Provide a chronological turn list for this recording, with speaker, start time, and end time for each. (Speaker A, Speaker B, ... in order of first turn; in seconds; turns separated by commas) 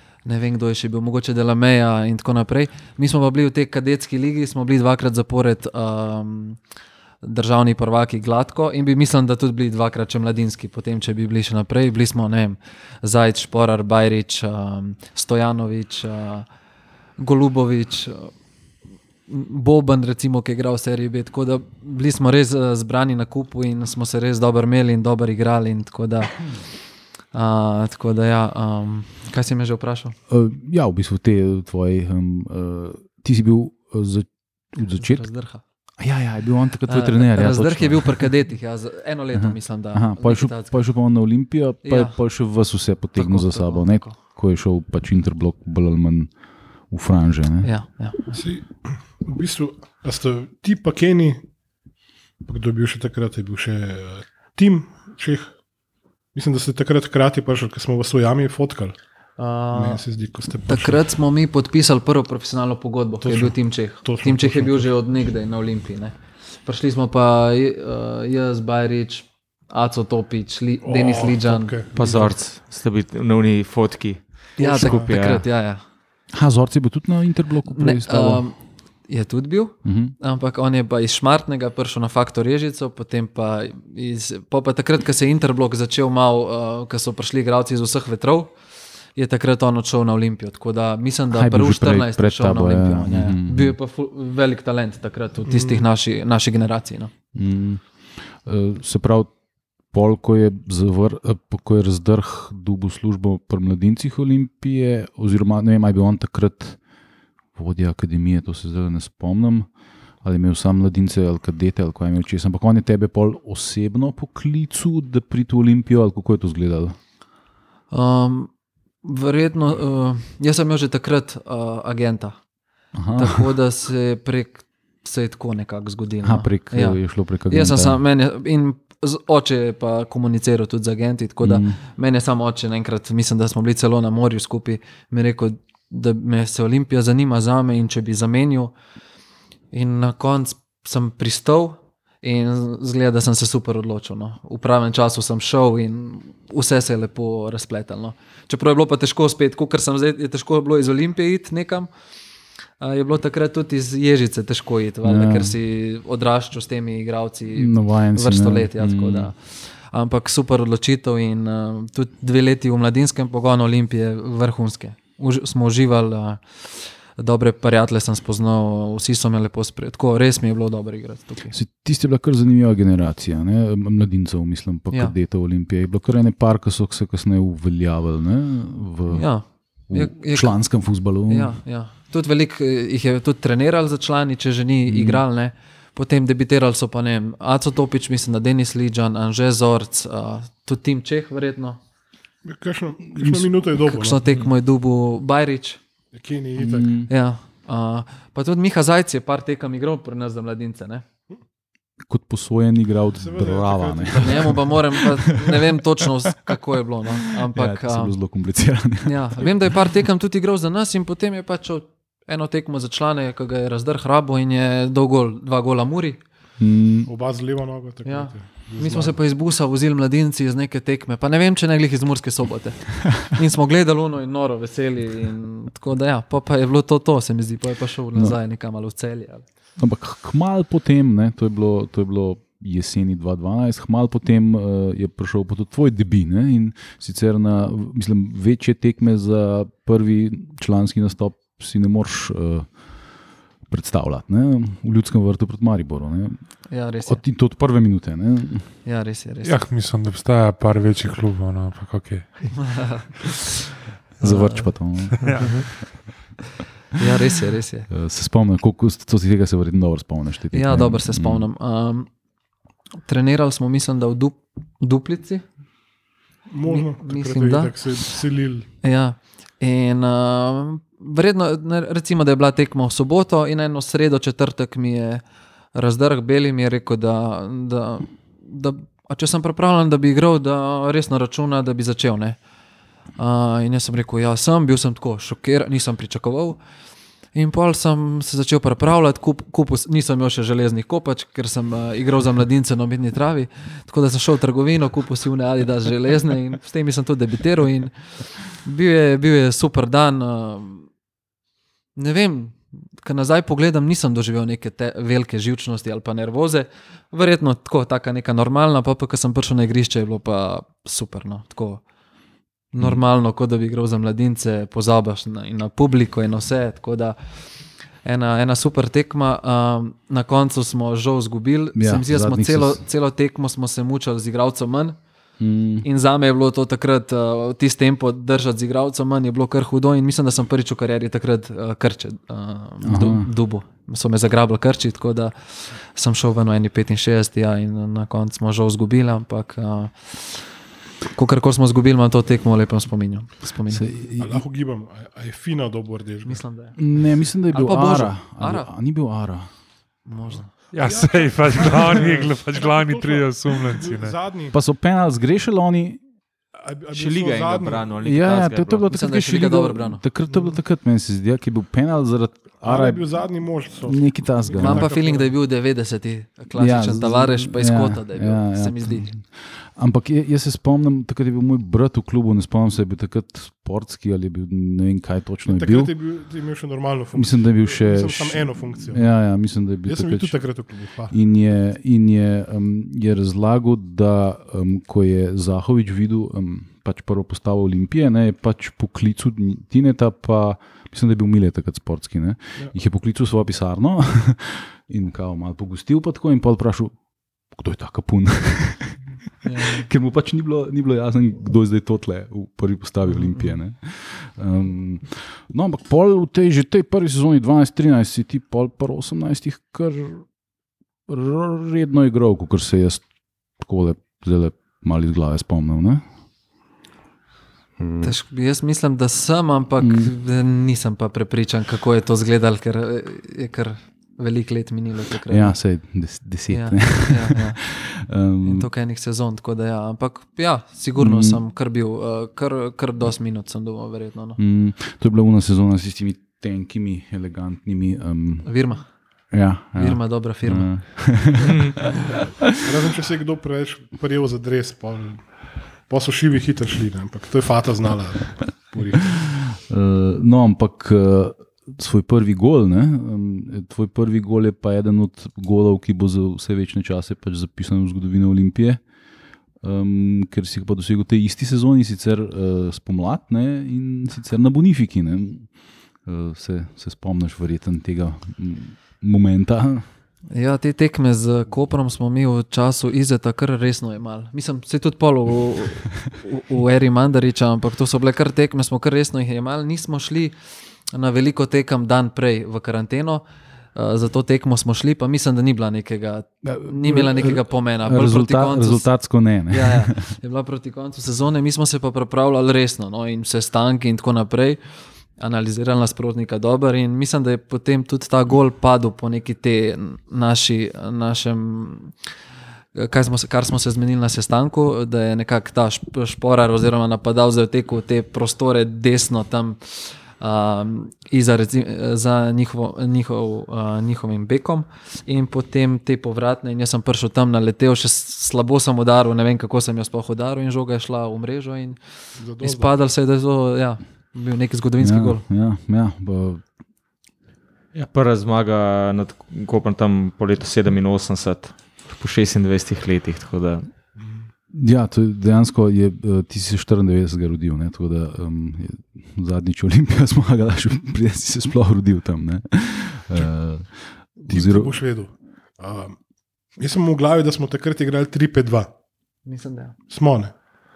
Speaker A: 0.2-6.6, Speaker A: 7.2-16.5, Speaker A: 17.2-18.3, Speaker A: 19.3-26.5, Speaker A: 27.3-30.1, Speaker B: 30.3-35.3, Speaker A: 35.0-35.6, Speaker B: 36.0-38.3, Speaker A: 36.9-40.7, Speaker B: 39.3-46.3, Speaker A: 41.8-42.2, Speaker A: 43.1-44.1, Speaker B: 46.9-47.7, Speaker A: 47.6-48.3, Speaker C: 48.3-51.4, Speaker C: 52.4-55.6, Speaker C: 56.3-59.0, Speaker A: 59.4-60.0, Speaker C: 59.7-61.0, Speaker A: 60.7-72.3, Speaker C: 63.2-64.9, Speaker C: 70.8-72.3, Speaker D: 72.0-75.4, Speaker A: 74.6-75.8, Speaker C: 74.6-75.1, Speaker B: 76.3-78.5, Speaker A: 77.7-88.5, Speaker B: 79.8-80.1, Speaker A: 89.1-97.1, Speaker B: 91.3-93.8, Speaker C: 95.5-95.8, Speaker B: 97.3-99.3, Speaker B: 99.9-106.8, Speaker B: 107.5-109.7, Speaker B: 110.2-117.0, Speaker A: 117.9-118.5, Speaker A: 119.0-122.4, Speaker B: 122.9-123.5, Speaker A: 123.2-138.7, Speaker B: 126.2-128.0, Speaker B: 131.4-131.8, Speaker A: 139.7-151.9, Speaker A: 152.8-171.5, Speaker B: 155.0-155.5, Speaker B: 157.6-159.3, Speaker B: 171.5-181.6, Speaker A: 179.1-191.8, Speaker B: 184.9-185.2, Speaker C: 192.4-194.2, Speaker B: 193.1-193.5, Speaker A: 193.8-195.8, Speaker C: 196.1-196.9, Speaker B: 196.6-197.1, Speaker A: 197.1-201.0, Speaker B: 202.1-205.8, Speaker C: 203.2-204.7, Speaker A: 204.2-208.1, Speaker B: 206.3-206.6, Speaker B: 207.4-209.8, Speaker A: 209.0-216.2, Speaker B: 216.6-217.1, Speaker C: 217.1-219.2, Speaker A: 218.0-229.4, Speaker B: 229.8-243.1, Speaker B: 243.7-248.7, Speaker A: 246.7-247.2, Speaker A: 248.8-249.6, Speaker E: 249.4-253.1, Speaker A: 252.6-253.7, Speaker A: 254.2-254.8, Speaker B: 254.2-255.5, Speaker E: 255.2-256.0, Speaker A: 256.9-257.9, Speaker B: 257.9-261.5, Speaker A: 260.5-262.1, Speaker A: 263.0-265.4, Speaker C: 266.5-268.7, Speaker A: 266.6-268.1, Speaker A: 268.8-275.2, Speaker A: 275.7-282.4, Speaker A: 283.2-286.6, Speaker A: 287.3-300.9, Speaker A: 301.9-311.8, Speaker A: 312.7-317.4, Speaker A: 318.0-325.0, Speaker B: 321.8-322.8, Speaker B: 325.4-325.9, Speaker A: 325.8-340.5, Speaker B: 332.8-333.3, Speaker A: 341.1-343.8, Speaker B: 343.7-344.4, Speaker C: 344.2-346.4, Speaker A: 346.2-348.7, Speaker B: 346.8-349.5, Speaker A: 350.0-350.5, Speaker E: 350.7-354.2, Speaker C: 350.8-354.6, Speaker B: 354.5-356.0, Speaker C: 356.6-357.9, Speaker D: 356.9-358.9, Speaker B: 358.0-363.0, Speaker A: 358.9-360.0, Speaker C: 360.3-360.5, Speaker C: 362.6-365.3, Speaker B: 363.8-364.9, Speaker A: 364.5-369.1, Speaker B: 366.5-375.9, Speaker C: 375.5-379.1, Speaker B: 377.1-380.4, Speaker C: 379.9-381.1, Speaker B: 381.1-397.0, Speaker B: 397.5-410.3, Speaker A: 399.4-399.9, Speaker B: 411.1-413.0, Speaker B: 413.6-416.0, Speaker B: 417.8-418.1, Speaker A: 418.0-425.6, Speaker B: 419.8-420.1, Speaker B: 425.3-428.7, Speaker A: 426.5-427.6, Speaker A: 428.4-434.4, Speaker B: 431.0-431.4, Speaker B: 434.4-438.5, Speaker A: 438.4-438.9, Speaker B: 439.3-441.6, Speaker A: 439.7-441.2, Speaker C: 442.6-449.3, Speaker B: 449.1-458.8, Speaker B: 459.6-469.9, Speaker A: 470.3-480.4, Speaker A: 480.9-483.2, Speaker A: 483.7-488.9, Speaker B: 486.4-490.1, Speaker A: 489.5-494.6, Speaker A: 495.2-501.9, Speaker A: 502.7-521.8, Speaker C: 522.2-522.8, Speaker A: 522.4-525.2, Speaker B: 524.8-526.5, Speaker D: 527.7-533.7, Speaker B: 534.5-544.7, Speaker C: 544.2-546.0, Speaker C: 546.6-548.7, Speaker A: 549.2-549.8, Speaker C: 549.9-550.4